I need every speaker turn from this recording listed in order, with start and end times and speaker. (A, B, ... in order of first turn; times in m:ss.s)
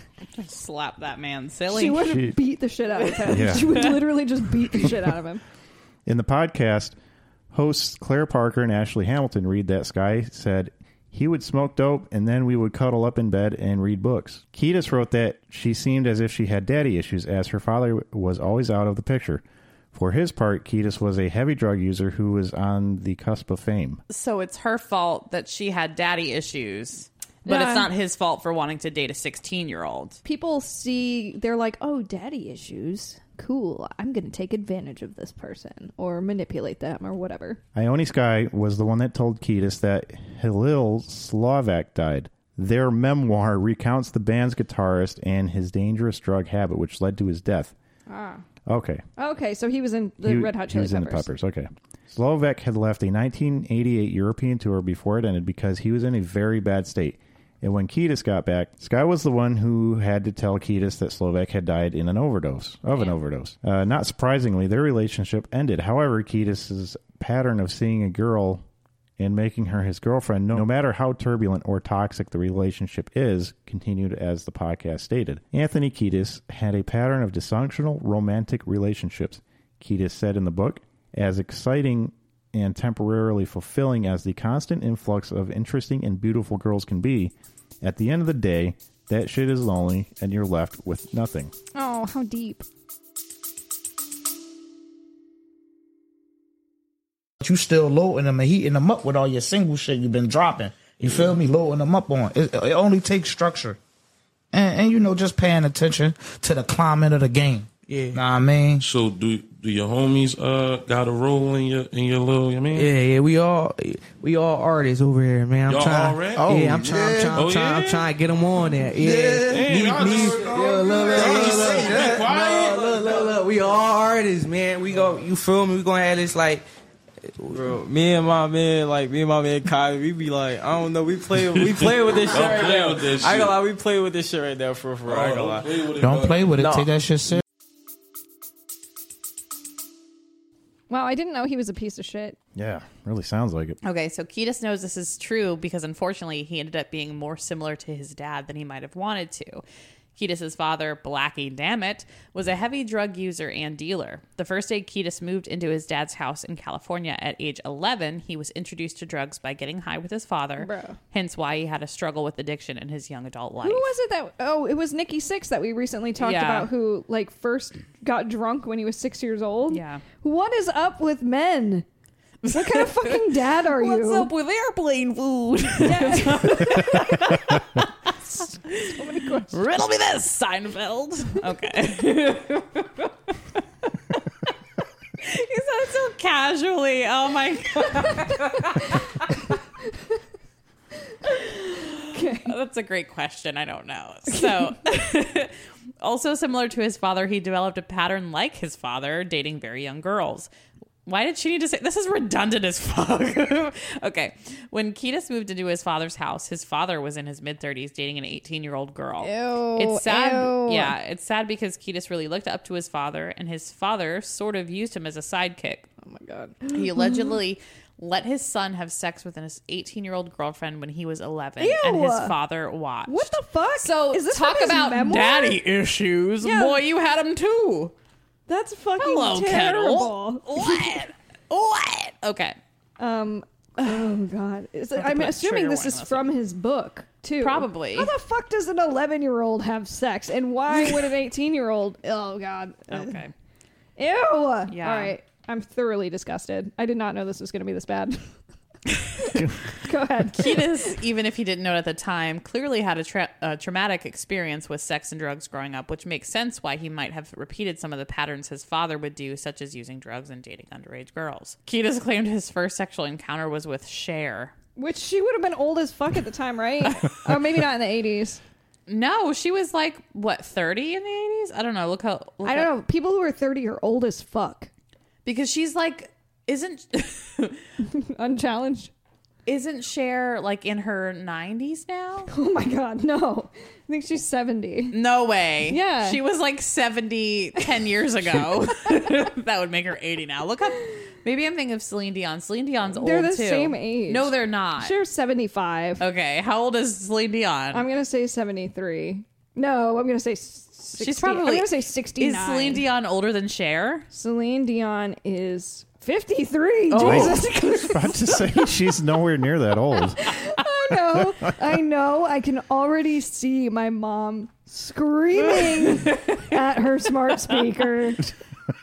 0:00.3-0:02.2 A
0:01.7-0:05.4 B
0:02.1-0:02.4 C
0:03.0-0:03.9 A
0:03.3-0:03.9 C
0:06.1-0:07.0 C
0:07.5-0:24.0 C
0:24.1-0:30.2 A
0:27.4-0:27.9 B
0:30.2-0:37.6 B
0:37.8-0:47.7 C
0:48.1-0:48.4 B
0:48.6-0:49.0 C
0:49.2-0:51.3 B
0:50.2-1:08.6 C
1:09.2-1:31.5 C
1:31.7-1:32.6 B
1:37.4-1:43.8 D
1:44.5-1:48.8 D
1:47.9-1:48.2 E
1:48.8-1:52.9 F
1:52.7-2:06.6 E
1:55.7-1:58.1 F
1:56.4-1:57.4 D
1:59.0-2:02.2 D
1:59.0-2:02.9 F
2:07.4-2:07.7 E
2:07.5-2:15.8 G
2:11.5-2:13.6 F
2:15.1-2:16.4 F
2:16.0-2:17.4 D
2:16.6-2:16.9 G
2:20.9-2:22.4 B
2:22.5-2:23.8 C
2:23.8-2:29.6 A
2:30.1-2:43.9 A
2:40.6-2:41.0 B
2:43.6-2:51.9 B
2:46.2-2:46.7 A
2:49.7-2:50.0 A
2:52.4-2:54.3 B
2:52.4-2:57.9 A
2:55.8-2:57.2 B
2:58.3-2:59.6 B
2:58.5-3:04.5 A
3:05.2-3:09.5 A
3:11.3-3:20.5 A
3:11.3-3:12.5 B
3:14.3-3:14.6 B
3:21.0-3:35.9 A
3:29.2-3:30.9 B
3:36.0-3:37.4 B
3:36.7-3:47.9 A
3:41.6-3:42.4 B
3:43.1-3:45.6 B
3:46.4-3:46.8 B
3:48.5-3:51.0 B
3:49.0-3:52.6 A
3:53.0-4:03.2 B
3:55.0-3:56.3 A
3:57.4-3:58.1 A
4:02.9-4:03.3 A
4:04.0-4:08.2 B
4:04.7-4:05.1 A
4:09.2-4:10.9 B
4:10.3-4:24.5 A
4:24.8-4:28.4 B
4:28.9-4:32.7 A
4:32.4-4:34.7 B
4:35.2-4:37.6 A
4:37.8-4:38.9 B
4:39.5-4:42.3 A
4:42.3-4:45.0 B
4:44.9-4:55.0 A
4:45.7-4:46.2 B
4:52.9-4:56.0 B
4:56.0-4:57.9 A
4:57.7-5:02.9 B
5:01.0-5:04.1 A
5:04.1-5:08.6 B
5:06.9-5:07.4 A
5:07.0-5:10.2 C
5:10.2-5:18.3 B
5:15.6-5:16.4 A